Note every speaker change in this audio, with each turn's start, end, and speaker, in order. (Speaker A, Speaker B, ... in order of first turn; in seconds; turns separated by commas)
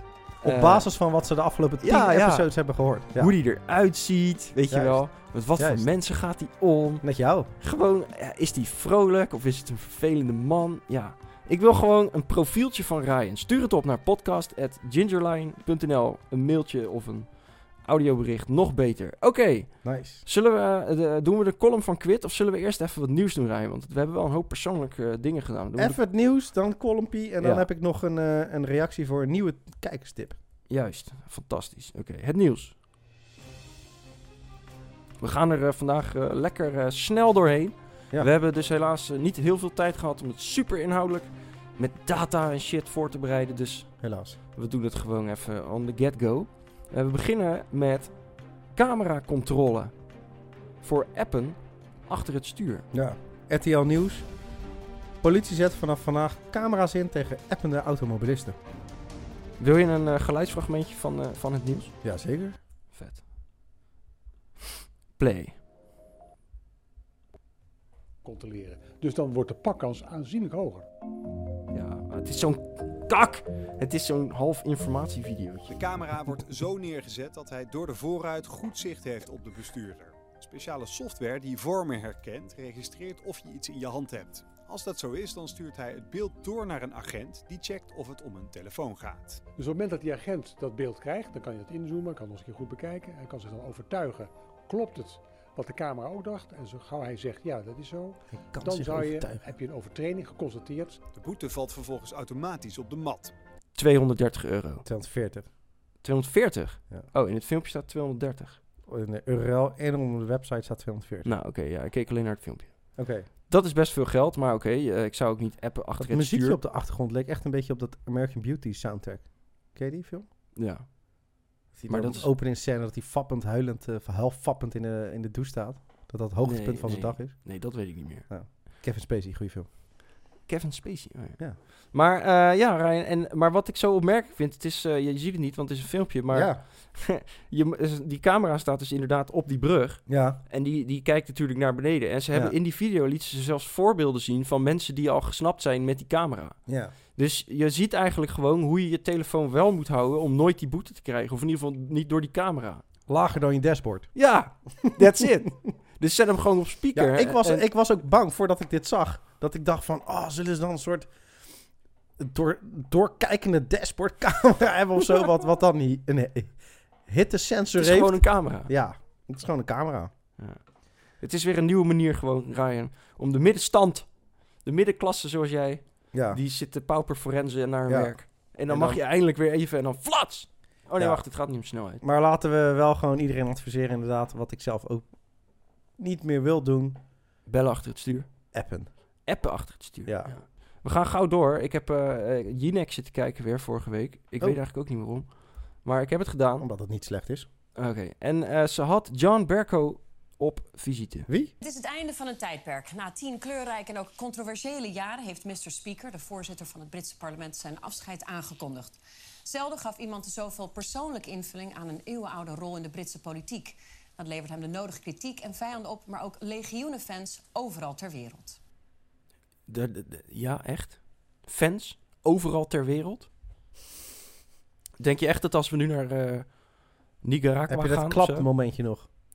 Speaker A: 0.4-0.9, Speaker B: 0.4-3.3, Speaker A: 1.8-2.5, Speaker A: 3.1-26.0, Speaker B: 4.7-5.0, Speaker B: 5.5-5.9, Speaker B: 7.0-7.5, Speaker B: 19.8-20.2, Speaker B: 25.8-30.4, Speaker A: 27.4-27.7, Speaker A: 30.7-32.8, Speaker A: 35.2-43.9, Speaker B: 44.0-44.4, Speaker A: 44.5-48.1, Speaker A: 48.7-49.9, Speaker A: 50.8-52.9, Speaker B: 52.9-54.3, Speaker B: 55.2-58.6, Speaker A: 59.6-61.9, Speaker B: 62.0-62.6, Speaker A: 62.9-63.2, Speaker A: 65.2-65.6, Speaker C: 68.2-70.8, Speaker A: 71.7-75.8, Speaker D: 75.7-89.4, Speaker C: 89.5-101.0, Speaker B: 98.3-99.5, Speaker D: 101.1-103.3, Speaker A: 103.7-104.8, Speaker B: 104.8-105.5, Speaker A: 106.0-108.6, Speaker B: 108.9-111.3, Speaker A: 111.2-116.6, Speaker B: 113.0-113.3, Speaker B: 116.0-120.3, Speaker A: 120.5-121.2, Speaker B: 121.7-129.7, Speaker A: 121.9-122.3, Speaker A: 126.4-128.3, Speaker A: 130.4-146.6, Speaker B: 136.3-136.6, Speaker B: 140.1-140.4, Speaker B: 146.7-146.9, Speaker A: 147.1-152.8, Speaker B: 153.1-154.1, Speaker A: 154.1-157.7, Speaker B: 154.8-155.5, Speaker B: 156.9-161.1, Speaker B: 162.2-170.1, Speaker A: 167.8-168.7, Speaker A: 170.4-182.0, Speaker B: 176.1-176.4, Speaker B: 177.9-179.0, Speaker B: 181.0-181.3, Speaker B: 182.0-185.1, Speaker B: 186.0-187.0, Speaker A: 187.4-188.3, Speaker B: 188.5-188.9, Speaker A: 189.2-195.3, Speaker B: 190.0-190.3, Speaker A: 195.8-196.7, Speaker B: 196.6-197.5, Speaker A: 197.8-201.3, Speaker B: 201.3-201.5, Speaker E: 201.6-218.6, Speaker A: 219.7-223.3, Speaker A: 225.0-228.5, Speaker B: 227.7-229.1